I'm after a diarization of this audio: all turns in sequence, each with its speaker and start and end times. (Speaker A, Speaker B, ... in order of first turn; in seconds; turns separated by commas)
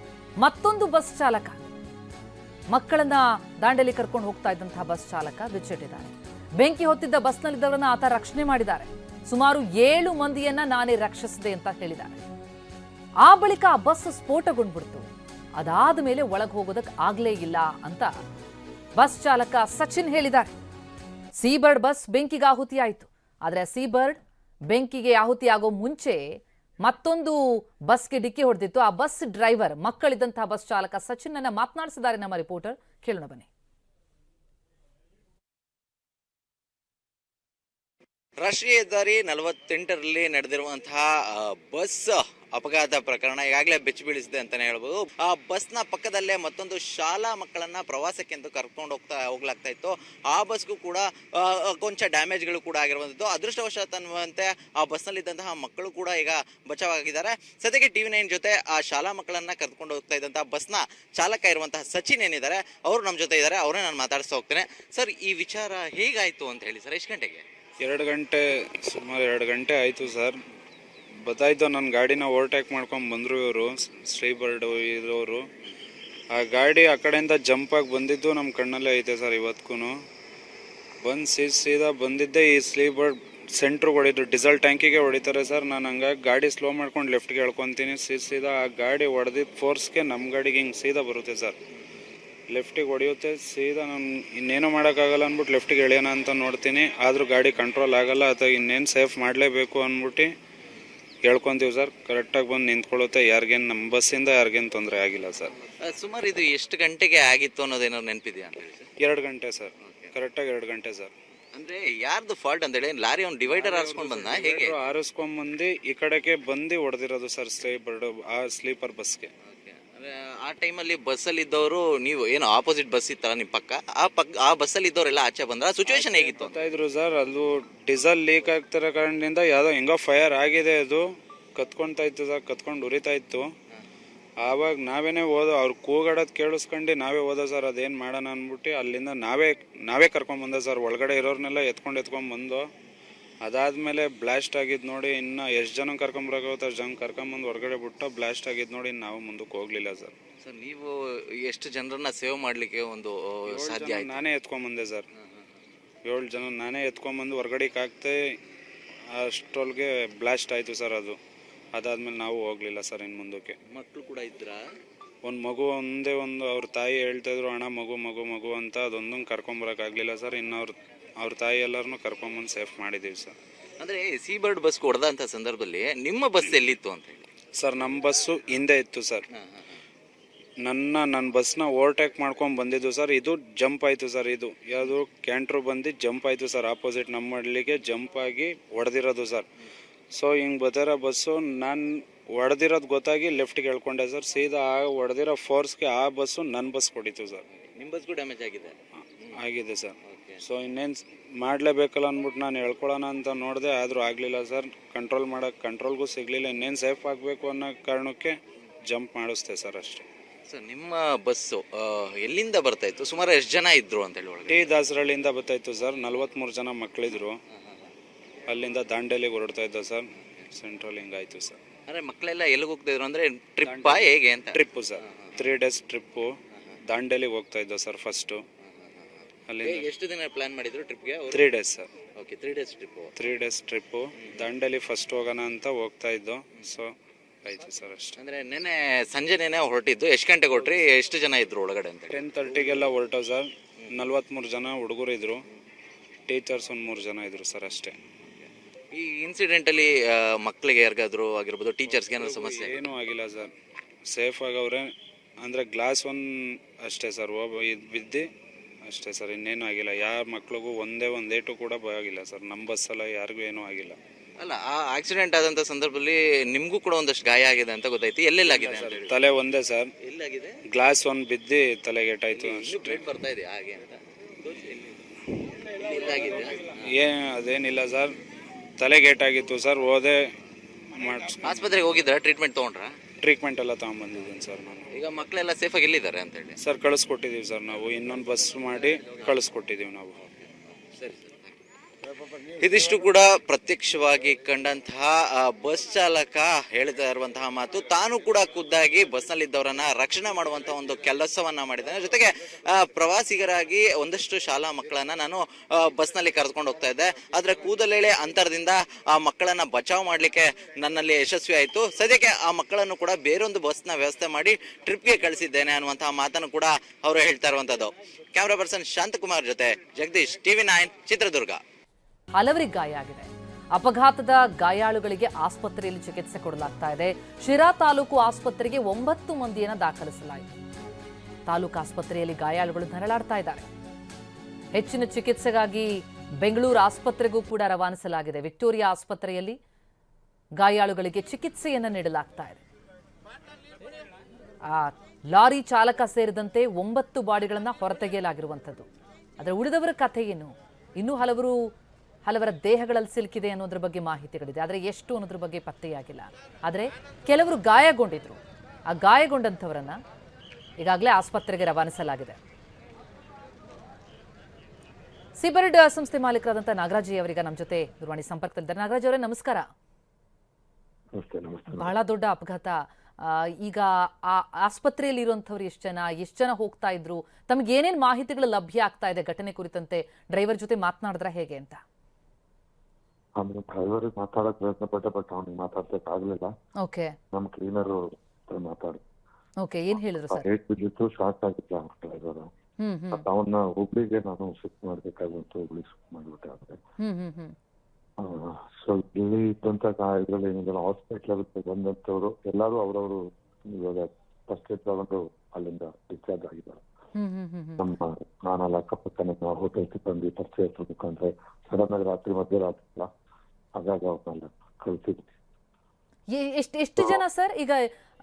Speaker A: 0.4-1.6, Speaker A: 2.7-12.2, Speaker A: 13.2-15.1, Speaker A: 15.6-18.1, Speaker A: 19.0-20.5, Speaker A: 21.4-24.2, Speaker A: 24.7-26.2, Speaker A: 26.8-33.5, Speaker B: 38.4-67.4, Speaker C: 67.8-70.4, Speaker C: 71.2-75.4, Speaker C: 76.3-79.9, Speaker C: 81.0-91.6, Speaker C: 92.5-100.3, Speaker C: 101.2-105.5, Speaker B: 105.8-108.9, Speaker C: 109.0-111.1, Speaker B: 109.8-110.1, Speaker B: 111.5-114.8, Speaker C: 113.5-119.3, Speaker B: 119.5-126.5, Speaker C: 125.9-133.5, Speaker C: 134.4-142.7, Speaker C: 143.4-150.1, Speaker B: 150.4-154.2, Speaker C: 153.5-155.0, Speaker C: 156.1-158.2, Speaker C: 159.1-161.2, Speaker C: 161.7-163.6, Speaker B: 163.7-164.6, Speaker C: 165.2-173.3, Speaker B: 173.8-177.3, Speaker C: 177.6-179.2, Speaker B: 179.4-179.8, Speaker C: 180.6-189.5, Speaker C: 190.1-197.4, Speaker B: 197.6-198.8, Speaker C: 199.3-208.3, Speaker B: 200.1-200.4, Speaker C: 208.9-210.1, Speaker B: 210.5-214.6, Speaker C: 214.5-217.4, Speaker C: 218.5-221.6, Speaker B: 221.9-224.6, Speaker C: 223.6-226.3, Speaker C: 226.9-228.4, Speaker C: 229.5-229.9, Speaker B: 229.6-231.4, Speaker C: 231.3-231.9, Speaker B: 232.2-233.1, Speaker C: 233.2-236.9, Speaker C: 237.4-238.2, Speaker B: 238.2-242.2, Speaker C: 242.1-245.4, Speaker C: 246.3-248.0, Speaker B: 248.4-252.8, Speaker C: 252.2-253.5, Speaker C: 254.1-254.9, Speaker C: 255.4-258.3, Speaker C: 258.9-264.0, Speaker B: 264.4-269.1, Speaker C: 268.4-269.9, Speaker B: 270.0-270.6, Speaker C: 270.7-273.0, Speaker B: 272.3-275.0, Speaker B: 275.7-276.8, Speaker C: 276.8-278.1, Speaker C: 278.8-280.2, Speaker C: 280.9-281.7, Speaker B: 281.4-282.9, Speaker C: 283.2-284.9, Speaker B: 284.9-286.6, Speaker C: 286.6-290.2, Speaker B: 290.2-291.6, Speaker B: 292.6-321.6, Speaker A: 322.4-330.5, Speaker A: 331.5-333.6, Speaker A: 334.7-335.9, Speaker A: 336.4-339.6, Speaker A: 340.6-342.6, Speaker A: 344.7-348.9, Speaker A: 349.4-351.6, Speaker A: 352.2-360.0, Speaker A: 360.8-362.4, Speaker A: 365.4-369.6, Speaker D: 371.1-371.9, Speaker A: 371.8-381.8, Speaker D: 383.4-386.5, Speaker A: 386.8-387.1, Speaker D: 387.3-389.0, Speaker A: 389.6-390.4, Speaker D: 390.3-392.5, Speaker A: 392.8-393.2, Speaker D: 393.1-396.8, Speaker A: 397.0-397.5, Speaker D: 398.2-406.8, Speaker A: 407.1-407.8, Speaker D: 407.8-413.1, Speaker D: 413.8-415.3, Speaker A: 416.3-417.8